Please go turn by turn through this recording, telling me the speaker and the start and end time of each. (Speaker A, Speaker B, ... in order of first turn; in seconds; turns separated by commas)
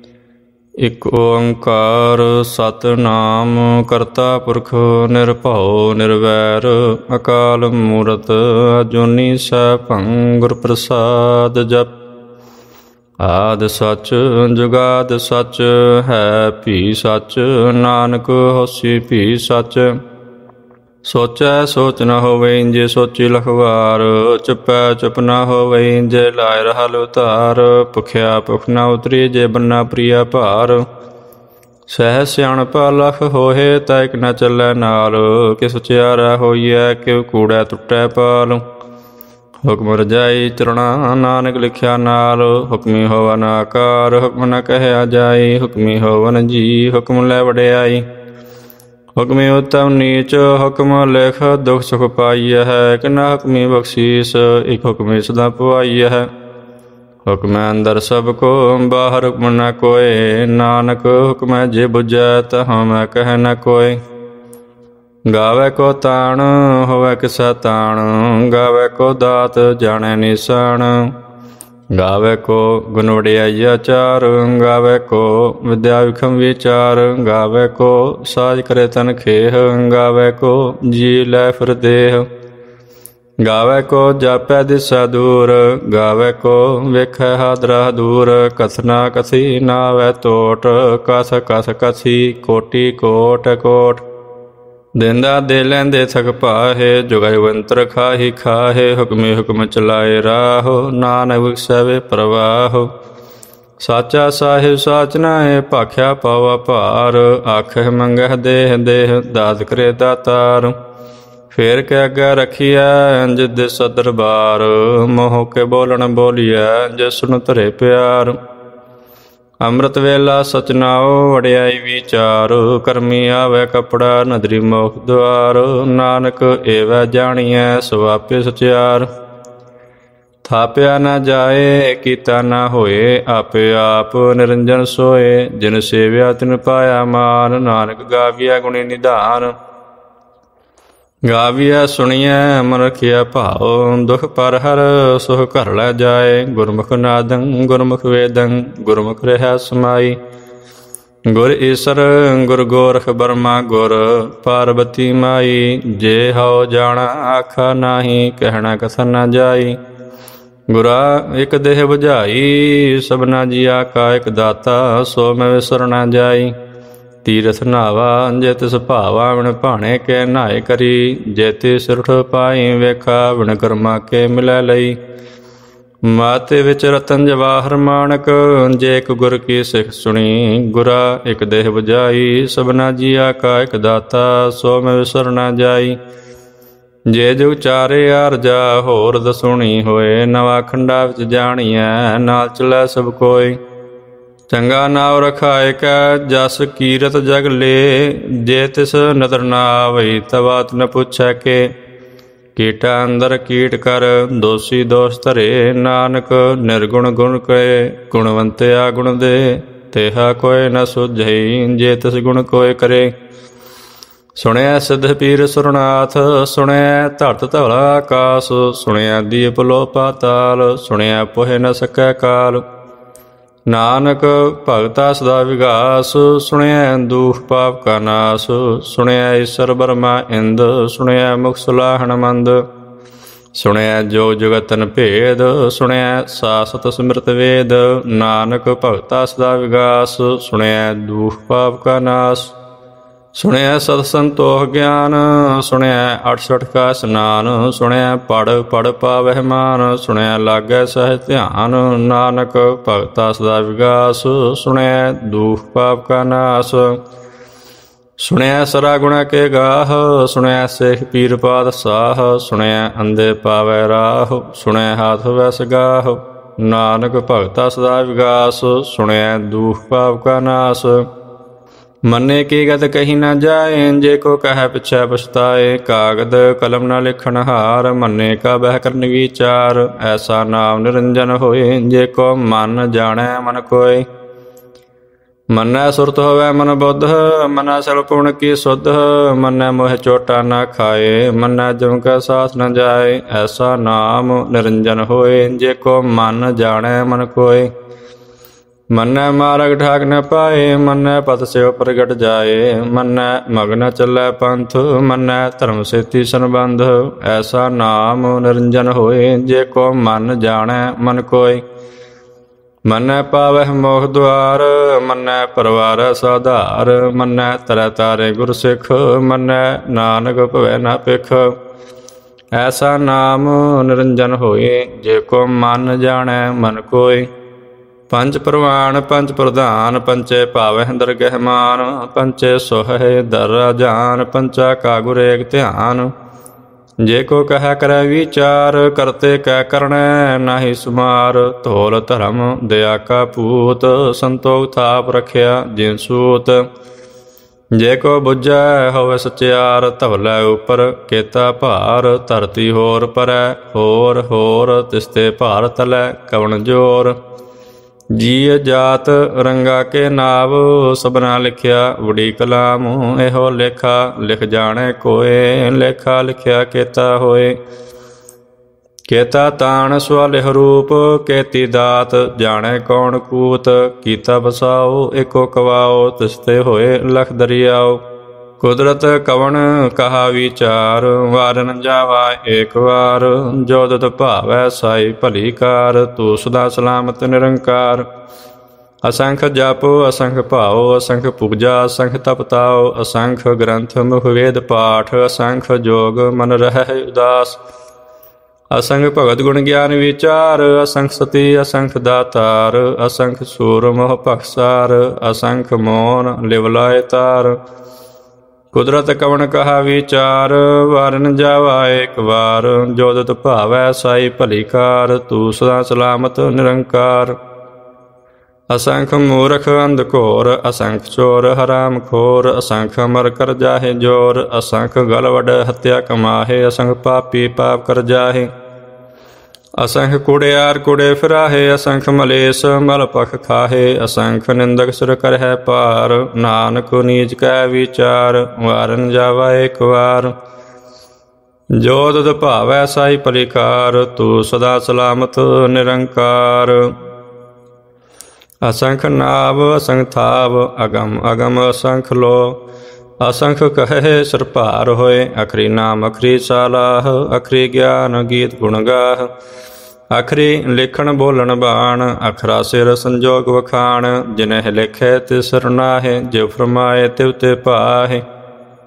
Speaker A: 0.8-11.9, Speaker A: 13.2-19.9, Speaker A: 21.1-30.8, Speaker A: 31.9-38.6, Speaker A: 39.6-48.0, Speaker A: 49.2-56.3, Speaker A: 57.3-64.0, Speaker A: 65.3-71.1, Speaker A: 72.0-82.3, Speaker A: 83.4-94.0, Speaker A: 95.0-102.9, Speaker A: 103.8-110.8, Speaker A: 111.5-118.4, Speaker A: 119.6-129.1, Speaker A: 130.5-139.5, Speaker A: 141.3-150.2, Speaker A: 151.3-159.8, Speaker A: 160.7-166.5, Speaker A: 167.2-175.0, Speaker A: 176.1-186.0, Speaker A: 187.1-193.6, Speaker A: 194.5-201.7, Speaker A: 202.6-213.1, Speaker A: 214.4-222.6, Speaker A: 223.7-232.6, Speaker A: 233.6-242.6, Speaker A: 243.4-257.0, Speaker A: 258.2-271.1, Speaker A: 272.1-284.1, Speaker A: 285.5-297.7, Speaker A: 298.9-311.6, Speaker A: 312.9-321.5, Speaker A: 322.6-327.3, Speaker A: 328.1-336.1, Speaker A: 337.0-346.7, Speaker A: 347.8-357.2, Speaker A: 358.1-367.6, Speaker A: 369.1-378.0, Speaker A: 378.6-388.1, Speaker A: 389.1-397.6, Speaker A: 398.7-407.6, Speaker A: 408.7-417.4, Speaker A: 418.7-428.5, Speaker A: 429.8-440.3, Speaker A: 441.8-446.9, Speaker A: 448.6-452.6, Speaker A: 453.2-459.3, Speaker A: 460.1-468.2